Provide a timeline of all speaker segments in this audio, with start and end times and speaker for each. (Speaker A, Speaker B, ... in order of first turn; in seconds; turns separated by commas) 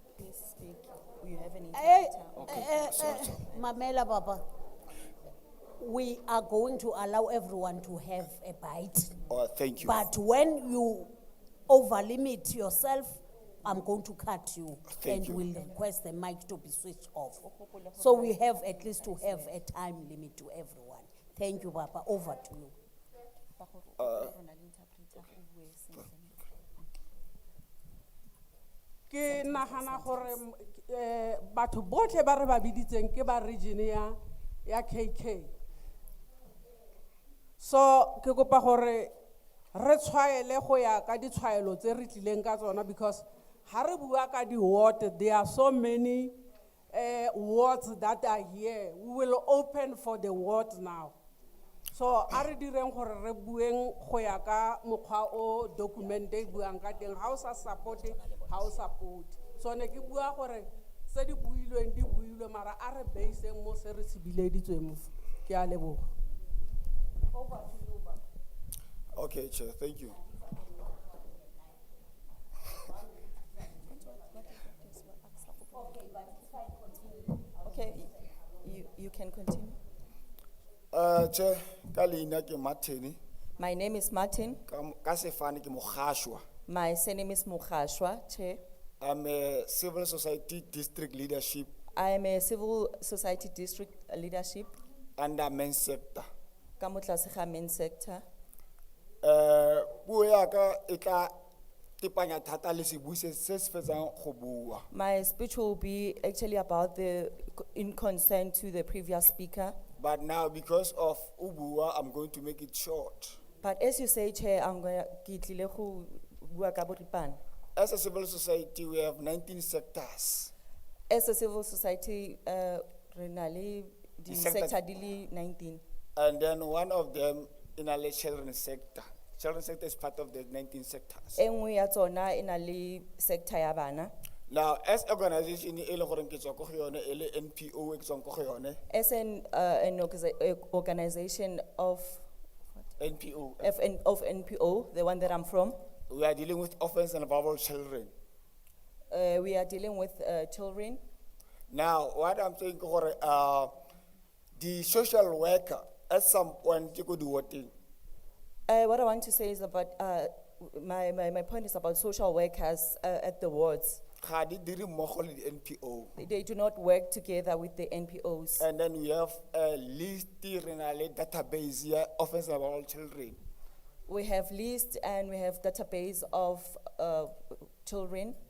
Speaker A: 0.1-3.7, Speaker B: 1.7-4.4, Speaker C: 2.4-3.4, Speaker B: 5.8-9.2, Speaker C: 9.3-10.1, Speaker B: 9.8-11.1, Speaker B: 11.7-17.4, Speaker C: 14.9-15.4, Speaker A: 17.4-19.6, Speaker B: 18.0-22.7, Speaker A: 23.6-26.4, Speaker C: 24.0-24.3, Speaker D: 29.1-35.5, Speaker A: 29.3-30.4, Speaker D: 37.6-39.1, Speaker D: 39.7-46.4, Speaker D: 46.9-51.1, Speaker D: 51.9-66.1, Speaker B: 56.2-56.5, Speaker B: 57.8-58.7, Speaker B: 67.3-68.2, Speaker C: 69.1-70.2, Speaker B: 70.2-71.7, Speaker A: 73.8-76.0, Speaker B: 75.7-78.1, Speaker A: 77.6-79.8, Speaker C: 80.9-83.2, Speaker A: 83.6-84.6, Speaker C: 84.7-86.4, Speaker A: 86.7-88.6, Speaker C: 89.0-91.7, Speaker A: 91.9-94.7, Speaker C: 95.2-96.3, Speaker A: 96.8-98.2, Speaker C: 99.2-101.3, Speaker C: 102.0-104.8, Speaker A: 104.9-109.8, Speaker C: 110.0-113.4, Speaker A: 113.6-117.4, Speaker C: 117.8-120.5, Speaker A: 121.1-125.8, Speaker C: 124.3-124.8, Speaker C: 126.2-131.4, Speaker A: 131.3-134.1, Speaker C: 134.5-138.8, Speaker A: 138.9-142.2, Speaker C: 143.0-143.7, Speaker A: 143.6-145.8, Speaker C: 146.1-148.1, Speaker A: 149.1-151.0, Speaker C: 151.7-153.7, Speaker C: 154.6-157.7, Speaker A: 158.7-164.0, Speaker C: 164.2-166.2, Speaker A: 166.2-168.7, Speaker C: 168.6-173.4, Speaker A: 174.1-178.4